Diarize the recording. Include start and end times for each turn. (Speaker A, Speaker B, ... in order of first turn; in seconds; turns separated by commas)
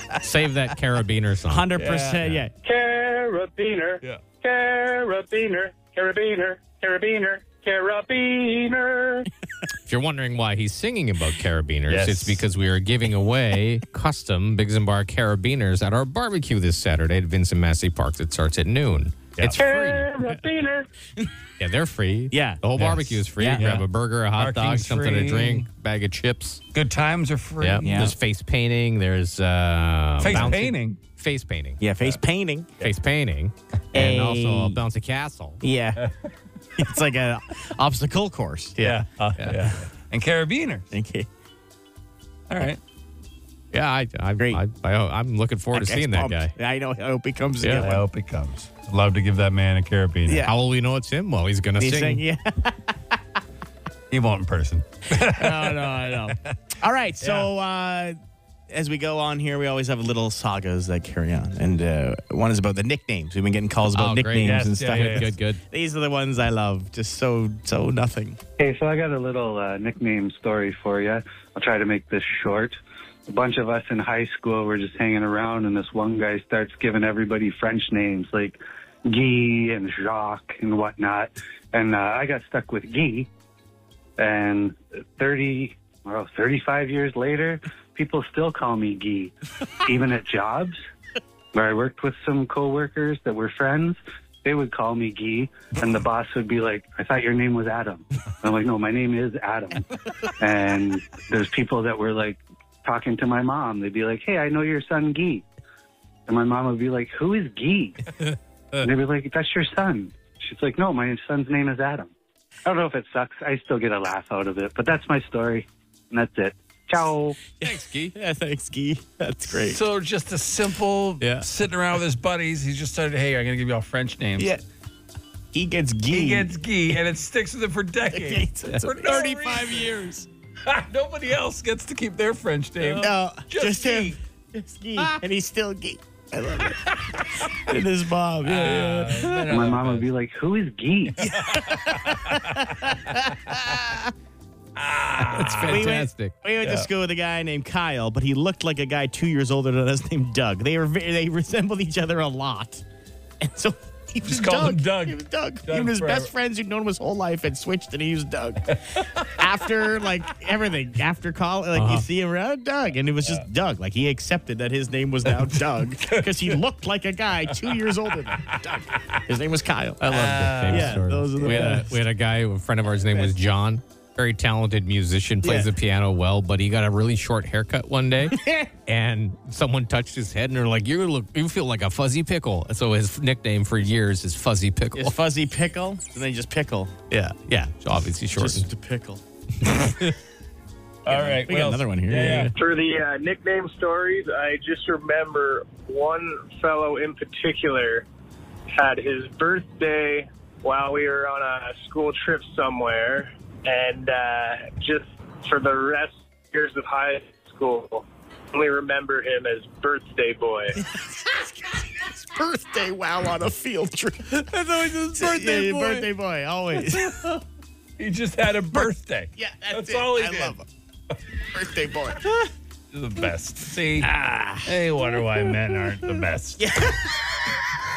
Speaker A: 0.2-1.7, Speaker B: 1.5-2.5, Speaker C: 1.8-2.3, Speaker D: 2.6-9.3, Speaker A: 9.9-20.1, Speaker C: 11.9-12.4, Speaker C: 19.4-19.6, Speaker D: 19.5-20.9, Speaker A: 21.6-26.6, Speaker B: 22.3-22.6, Speaker C: 22.8-25.7, Speaker B: 23.4-23.7, Speaker C: 26.7-28.1, Speaker A: 27.6-31.8, Speaker B: 27.8-28.1, Speaker C: 30.2-31.0, Speaker B: 31.8-32.7, Speaker A: 32.8-35.6, Speaker B: 33.9-34.8, Speaker B: 35.6-36.1, Speaker B: 36.8-38.9, Speaker C: 38.8-40.9, Speaker B: 40.9-41.3, Speaker C: 42.5-42.8, Speaker A: 43.7-46.5, Speaker B: 45.7-48.0, Speaker C: 47.8-50.5, Speaker B: 50.3-50.5, Speaker A: 50.5-52.2, Speaker B: 51.8-53.4, Speaker C: 54.1-56.5, Speaker B: 55.1-58.2, Speaker C: 57.2-57.5, Speaker B: 58.7-68.4, Speaker A: 64.0-65.6, Speaker C: 64.4-65.4, Speaker E: 68.6-83.3, Speaker E: 84.2-90.8, Speaker E: 91.5-99.8, Speaker E: 100.4-105.5, Speaker E: 106.3-108.0, Speaker E: 108.8-112.1, Speaker E: 112.7-117.4, Speaker A: 117.6-118.2, Speaker B: 117.6-119.8, Speaker C: 119.6-124.5, Speaker A: 121.2-121.5, Speaker B: 124.4-124.6, Speaker B: 125.5-126.5, Speaker C: 126.1-129.9, Speaker B: 128.1-130.3, Speaker A: 129.1-129.6, Speaker C: 130.7-134.2, Speaker B: 133.0-139.3, Speaker C: 138.4-140.1, Speaker A: 139.2-139.6, Speaker E: 139.5-141.2, Speaker C: 141.2-143.0, Speaker B: 141.3-144.1, Speaker C: 144.8-145.9, Speaker A: 145.2-146.3, Speaker B: 145.6-152.8, Speaker C: 146.6-146.9, Speaker B: 153.4-171.9, Speaker C: 154.2-156.3, Speaker A: 161.7-162.1, Speaker C: 166.0-166.6, Speaker A: 170.0-185.2, Speaker C: 170.1-171.8, Speaker B: 175.4-175.7, Speaker B: 178.3-178.7, Speaker B: 184.9-186.9, Speaker A: 187.1-188.7, Speaker B: 188.3-189.8, Speaker B: 191.1-192.5, Speaker C: 191.1-192.5, Speaker F: 192.6-198.1, Speaker F: 198.7-210.8, Speaker B: 210.9-217.4, Speaker A: 215.1-216.0, Speaker C: 218.0-220.6, Speaker B: 218.7-220.7, Speaker B: 221.5-222.5, Speaker C: 222.9-224.1, Speaker B: 224.0-224.8, Speaker C: 224.6-226.6, Speaker B: 226.6-227.6